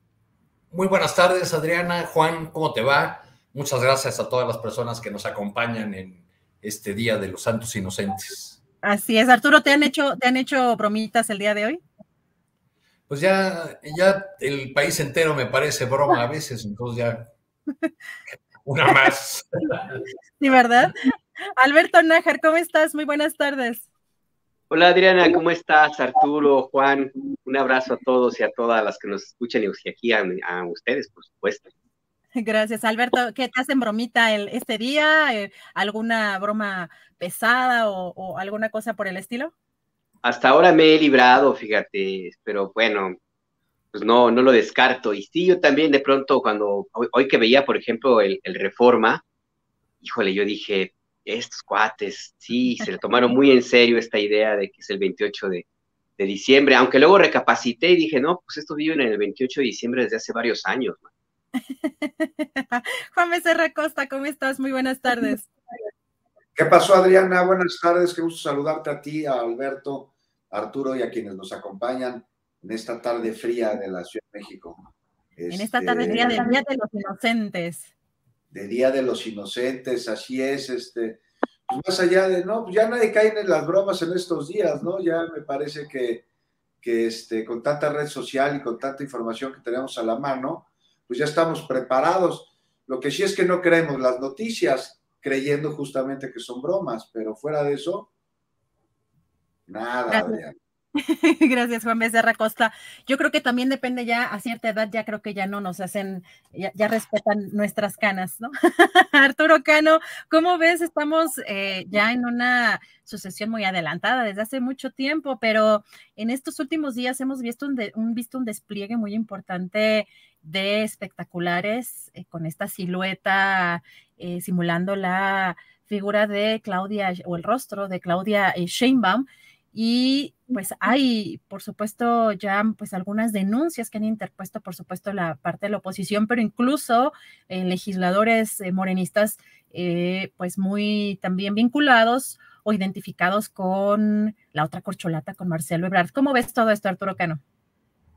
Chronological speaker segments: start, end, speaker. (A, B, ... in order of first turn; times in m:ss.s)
0:00.7-0:08.6 A
0:08.8-0:11.8 B
0:13.1-0:17.3 A
0:18.6-0:20.0 A
0:20.4-0:20.9 B
0:21.6-0:23.9 B
0:24.7-0:31.7 C
0:32.4-0:39.5 B
0:40.2-0:43.1 C
0:43.9-0:49.2 C
0:50.0-0:55.6 C
0:56.2-1:01.1 C
1:01.8-1:05.5 B
1:06.6-1:16.4 D
1:15.5-1:17.9 B
1:18.5-1:26.2 D
1:26.8-1:38.1 D
1:39.7-1:40.5 D
1:40.1-1:40.4 B
1:41.0-2:27.4 B